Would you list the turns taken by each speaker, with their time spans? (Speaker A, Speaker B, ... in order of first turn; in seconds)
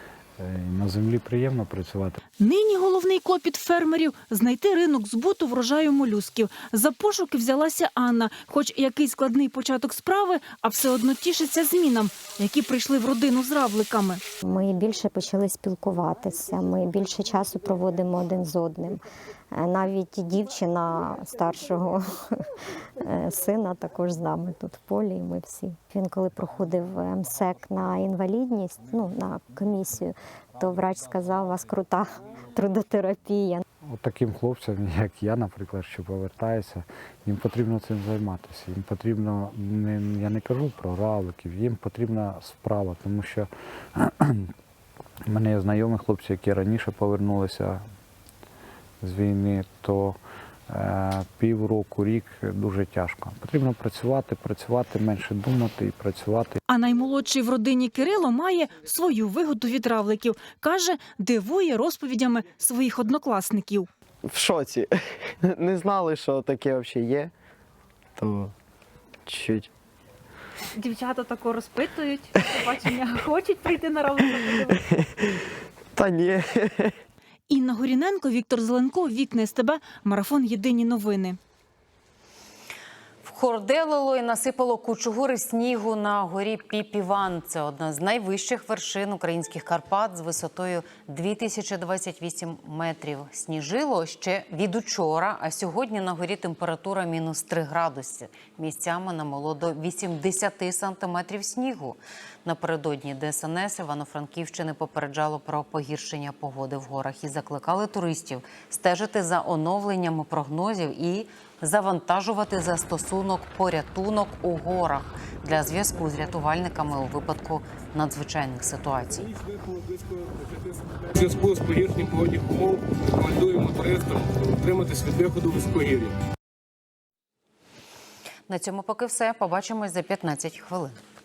Speaker A: 0.4-2.2, 33.8-44.5, 45.3-47.8, 49.0-56.6
Speaker B: 2.4-14.2, 56.7-63.9, 77.5-81.4
Speaker C: 14.4-22.4, 23.0-33.6
Speaker D: 64.2-67.3, 68.2-68.5, 69.3-69.7, 72.4-73.2, 74.4-75.3, 75.9-77.0
Speaker E: 83.2-119.3, 128.5-131.0
Speaker F: 119.2-126.2